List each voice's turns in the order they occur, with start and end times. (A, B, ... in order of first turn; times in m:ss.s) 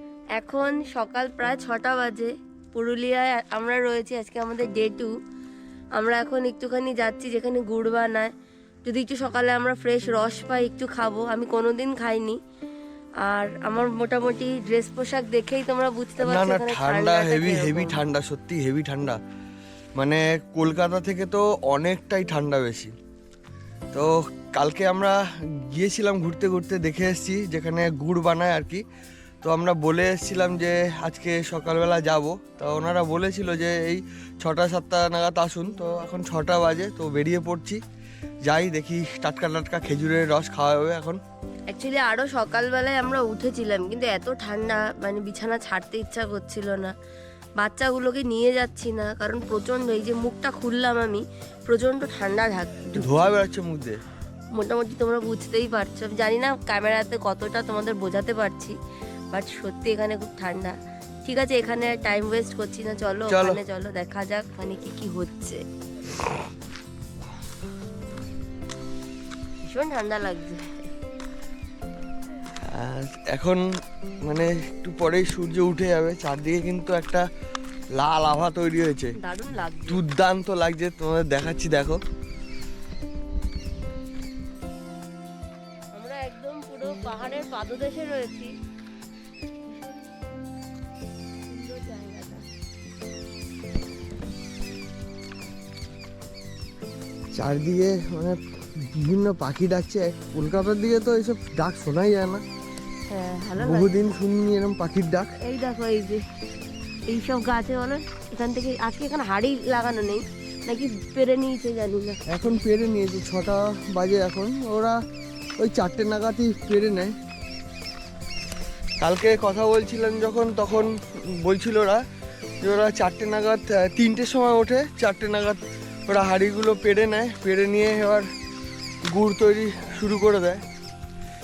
0:00.4-0:05.1 A
0:06.0-0:08.3 A
0:08.8-0:12.4 A
0:13.2-0:18.0 A
0:16.2-0:19.2 B
0:20.0-0:22.9 B
0:23.9-0:28.8 B
0:29.4-0:37.8 B
0:38.4-0:41.2 B
0:41.7-0:46.9 A
0:47.6-0:53.1 A
0:53.0-0:54.0 B
0:54.5-0:58.8 A
0:59.3-1:05.6 A
1:03.3-1:03.6 B
1:09.6-1:10.8 A
1:12.6-1:13.6 B
1:14.3-1:17.2 B
1:18.0-1:19.1 B
1:19.2-1:20.0 A
1:19.9-1:22.0 B
1:25.9-1:28.5 A
1:29.7-1:30.0 A
1:31.4-1:32.4 A
1:37.3-1:42.4 B
1:43.1-1:44.0 A
1:43.6-1:45.3 B
1:45.4-1:46.2 A
1:47.1-1:52.2 A
1:52.3-1:55.0 B
1:55.6-1:57.2 B
1:59.0-2:02.0 B
2:02.6-2:08.3 B
2:09.1-2:10.6 B